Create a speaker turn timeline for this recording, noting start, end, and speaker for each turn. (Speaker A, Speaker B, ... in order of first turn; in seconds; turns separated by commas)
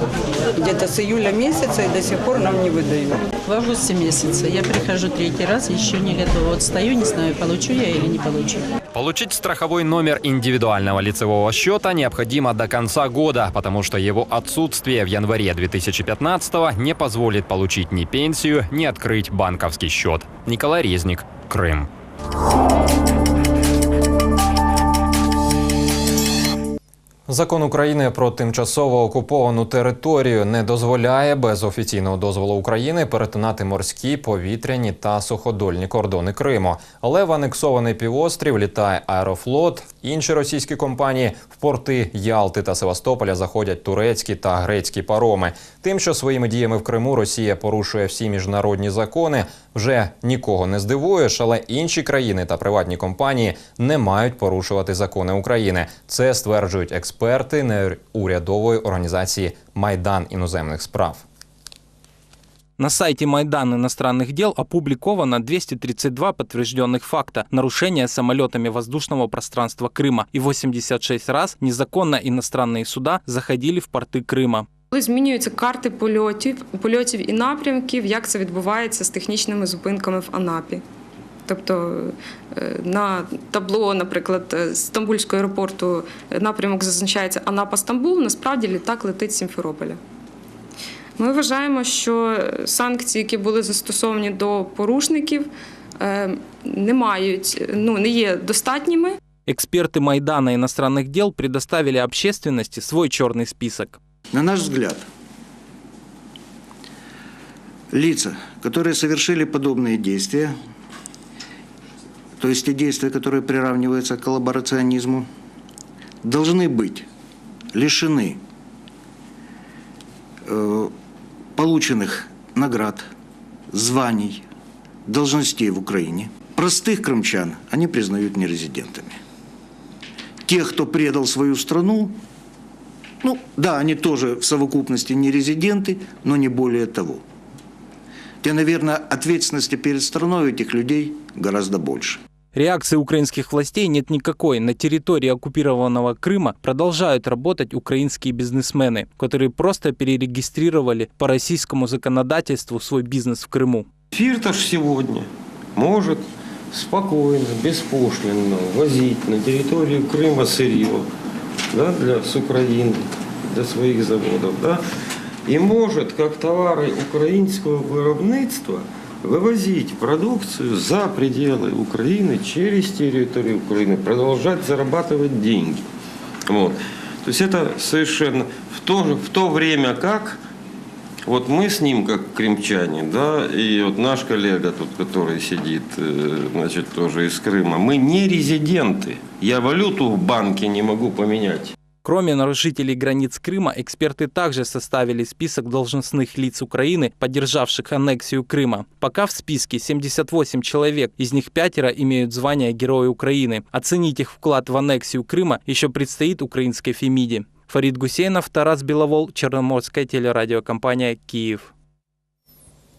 Speaker A: 0.6-3.2, Speaker B: 3.4-8.6, Speaker C: 8.9-21.9, Speaker C: 27.3-61.2, Speaker D: 62.8-74.7, Speaker E: 74.9-80.8, Speaker E: 81.5-90.0, Speaker E: 91.2-99.2, Speaker D: 99.5-104.0, Speaker F: 104.3-105.0, Speaker F: 107.9-110.5, Speaker F: 112.4-115.3, Speaker F: 116.2-117.1, Speaker F: 117.7-118.4, Speaker F: 120.5-120.9, Speaker F: 121.5-123.1, Speaker F: 123.7-124.5, Speaker F: 125.0-129.2, Speaker F: 130.4-132.2, Speaker F: 133.2-137.2, Speaker F: 138.4-142.2, Speaker D: 142.5-153.9, Speaker G: 154.1-156.2, Speaker G: 156.7-161.1, Speaker G: 161.7-164.8, Speaker G: 165.5-175.8, Speaker G: 176.5-180.4, Speaker G: 181.2-191.7, Speaker D: 192.0-211.7